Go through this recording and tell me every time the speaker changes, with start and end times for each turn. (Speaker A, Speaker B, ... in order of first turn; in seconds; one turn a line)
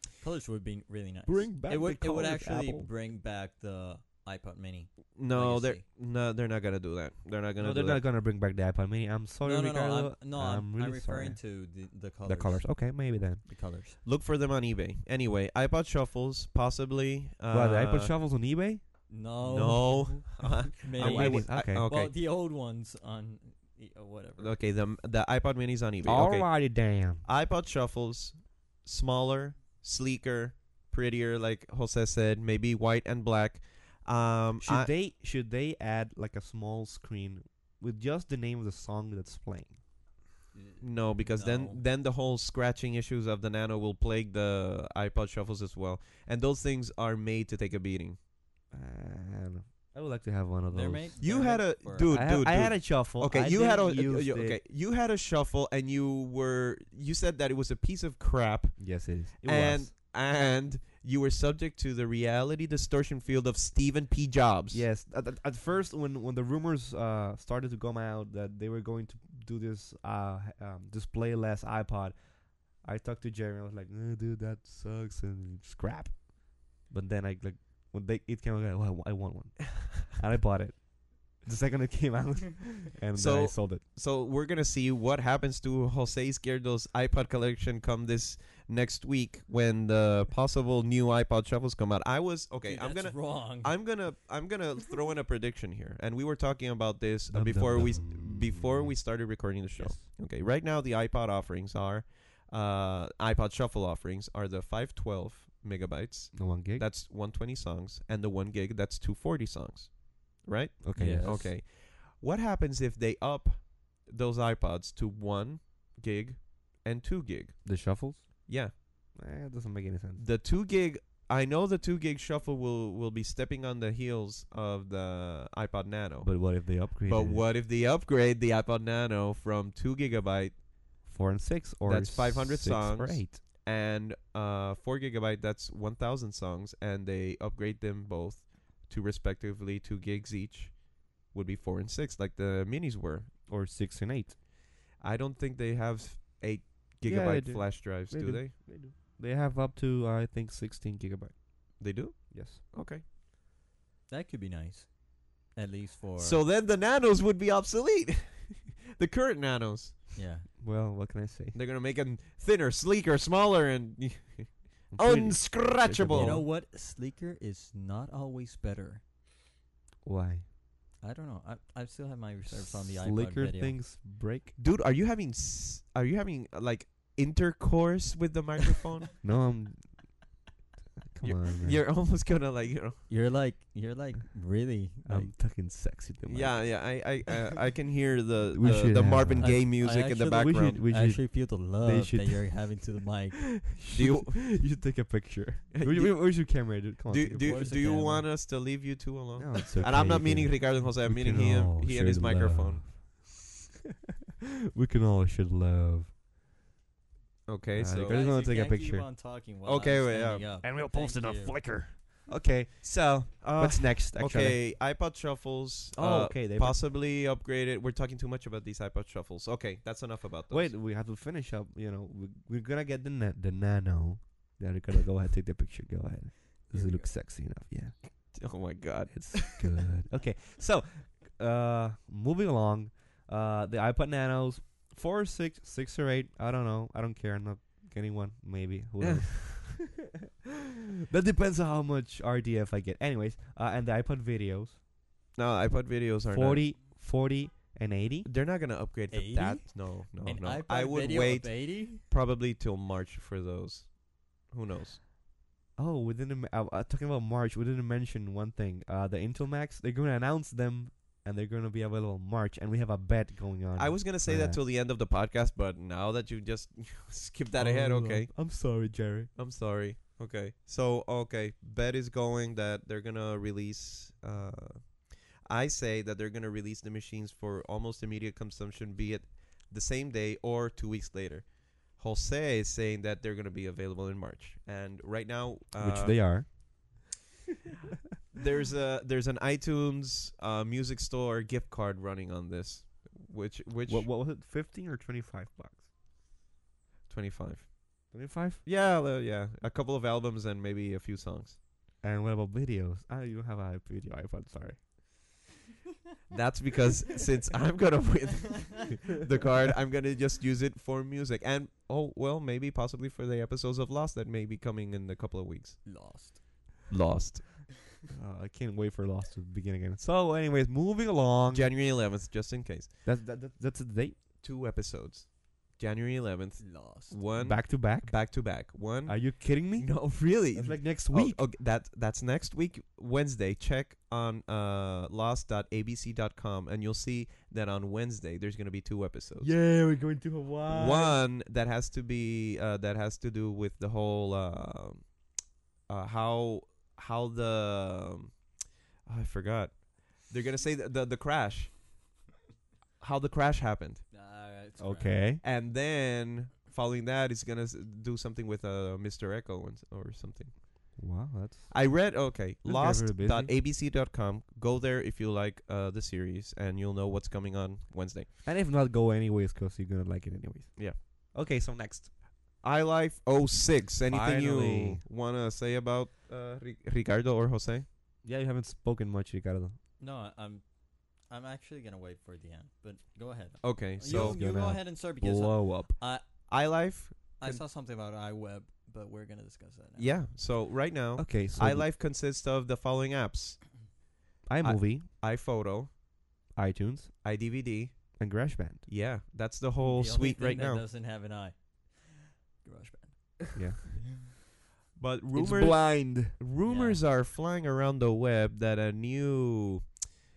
Speaker A: 0.2-5.8
Speaker B: 1.3-2.9
Speaker C: 5.2-8.0
Speaker B: 7.6-11.4
Speaker A: 9.4-12.9
Speaker B: 12.2-13.4
Speaker A: 13.4-14.0
Speaker C: 14.0-18.1
Speaker B: 17.5-18.8
Speaker A: 19.1-24.6
Speaker C: 19.4-22.1
Speaker B: 20.9-21.9
Speaker C: 24.4-34.9
Speaker B: 26.0-27.2
Speaker B: 34.6-39.8
Speaker A: 40.5-41.8
Speaker C: 40.8-48.2
Speaker B: 48.7-51.2
Speaker A: 50.7-52.2
Speaker C: 51.2-64.8
Speaker B: 52.1-54.6
Speaker B: 58.8-59.9
Speaker B: 64.7-72.2
Speaker B: 72.8-83.8
Speaker C: 83.2-117.7
Speaker A: 92.6-93.8
Speaker B: 97.3-99.0
Speaker B: 99.7-100.1
Speaker B: 106.3-106.9
Speaker B: 110.8-111.5
Speaker A: 111.0-111.5
Speaker B: 117.6-118.5
Speaker C: 118.5-118.7
Speaker B: 119.2-120.2
Speaker C: 120.2-130.6
Speaker B: 126.2-127.4
Speaker B: 131.0-133.4
Speaker C: 131.9-143.3
Speaker B: 143.5-144.4
Speaker C: 145.0-148.5
Speaker B: 147.0-151.4
Speaker C: 151.8-153.0
Speaker B: 152.3-152.6
Speaker A: 154.1-156.4
Speaker C: 156.2-160.2
Speaker A: 160.2-160.5
Speaker B: 160.6-161.6
Speaker C: 161.5-166.4
Speaker B: 164.9-166.5
Speaker A: 166.1-169.0
Speaker B: 170.0-170.4
Speaker A: 171.0-173.8
Speaker B: 172.5-174.6
Speaker C: 174.6-179.1
Speaker B: 179.2-180.2
Speaker B: 181.1-181.8
Speaker C: 181.2-183.1
Speaker A: 183.1-185.3
Speaker B: 185.1-186.8
Speaker C: 186.3-190.8
Speaker B: 188.5-192.8
Speaker A: 189.4-193.7
Speaker B: 193.6-197.7
Speaker C: 193.9-194.5
Speaker C: 195.7-196.5
Speaker C: 197.1-202.9
Speaker A: 197.4-198.3
Speaker B: 199.4-203.4
Speaker B: 204.7-206.1
Speaker C: 207.5-208.3
Speaker B: 207.7-209.1
Speaker A: 208.0-211.6
Speaker C: 209.7-210.5
Speaker B: 210.6-214.6
Speaker C: 213.4-220.7
Speaker B: 215.9-216.8
Speaker B: 220.5-228.3
Speaker A: 226.7-227.1
Speaker C: 228.3-229.8
Speaker B: 229.1-240.0
Speaker C: 239.0-239.7
Speaker B: 241.1-244.8
Speaker C: 245.3-246.8
Speaker B: 246.3-248.3
Speaker C: 248.2-255.0
Speaker A: 249.1-252.0
Speaker B: 255.8-264.6
Speaker C: 263.8-268.4
Speaker B: 267.6-269.3
Speaker C: 269.4-286.4
Speaker B: 285.8-286.7
Speaker C: 288.3-294.1
Speaker B: 293.9-295.9
Speaker C: 297.1-298.1
Speaker B: 298.1-298.6
Speaker C: 298.6-301.6
Speaker B: 302.0-304.9
Speaker C: 306.3-316.0
Speaker A: 315.9-316.6
Speaker C: 316.9-317.8
Speaker B: 318.1-321.7
Speaker C: 321.5-322.9
Speaker B: 323.1-324.2
Speaker C: 324.4-339.5
Speaker A: 326.6-327.2
Speaker B: 327.4-331.5
Speaker B: 339.4-341.2
Speaker C: 340.7-345.1
Speaker C: 345.9-348.4
Speaker C: 349.1-351.8
Speaker C: 353.0-354.0
Speaker A: 354.1-355.2
Speaker B: 354.8-355.4
Speaker C: 355.4-360.6
Speaker B: 361.0-363.5
Speaker C: 361.7-368.3
Speaker B: 368.4-372.1
Speaker C: 372.6-377.9
Speaker B: 374.1-375.0
Speaker B: 378.2-379.8
Speaker A: 380.0-380.6
Speaker A: 381.2-386.5
Speaker C: 383.6-384.4
Speaker B: 384.1-386.0
Speaker C: 386.5-387.6
Speaker A: 387.4-390.2
Speaker C: 390.0-393.9
Speaker B: 391.2-391.9
Speaker B: 394.5-395.1
Speaker C: 394.6-395.9
Speaker B: 396.5-397.2
Speaker C: 397.2-398.3
Speaker B: 398.2-398.9
Speaker C: 398.9-400.8
Speaker A: 399.8-403.6
Speaker B: 403.6-404.0
Speaker C: 405.0-410.1
Speaker B: 405.3-406.4
Speaker A: 406.6-407.0